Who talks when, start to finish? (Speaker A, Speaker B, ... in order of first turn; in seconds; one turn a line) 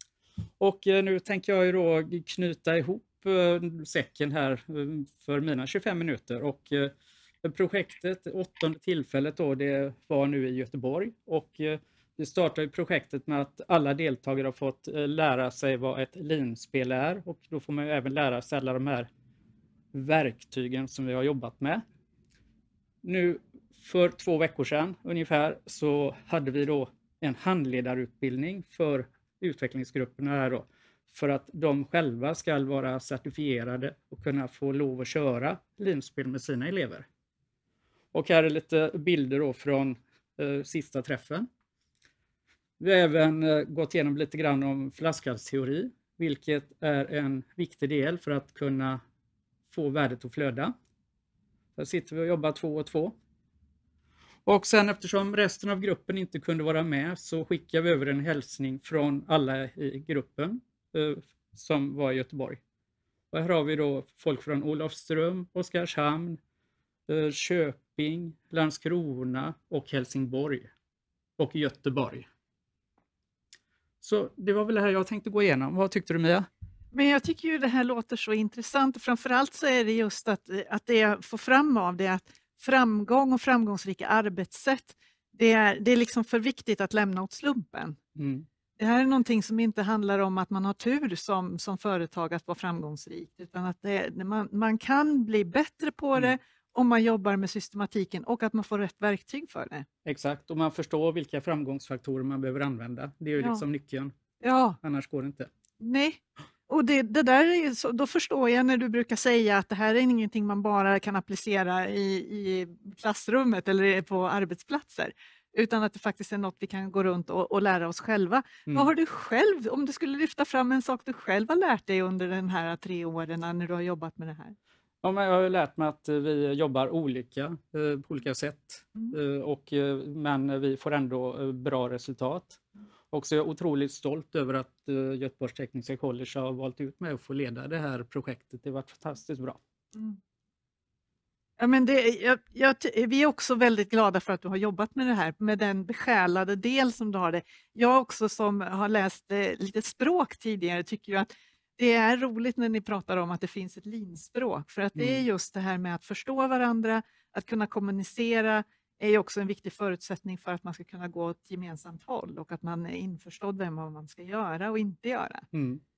Speaker A: 0.6-6.9
Speaker A: 7.4-19.1
Speaker A: 19.9-21.8
Speaker A: 23.0-37.1
Speaker A: 38.1-41.5
Speaker A: 42.8-49.0
Speaker A: 49.7-50.7
Speaker A: 51.8-53.1
Speaker A: 54.5-62.6
Speaker A: 63.3-66.4
Speaker A: 67.1-70.7
Speaker A: 71.4-72.3
Speaker A: 74.0-76.5
Speaker B: 76.9-88.0
Speaker A: 88.2-88.5
Speaker B: 88.8-99.9
Speaker A: 100.0-104.1
Speaker B: 103.4-103.6
Speaker B: 104.4-104.8
Speaker A: 104.8-105.5
Speaker B: 105.8-124.5
Speaker A: 125.0-132.6
Speaker A: 133.1-139.6
Speaker B: 141.6-165.4
Speaker A: 155.0-155.2
Speaker A: 165.5-165.8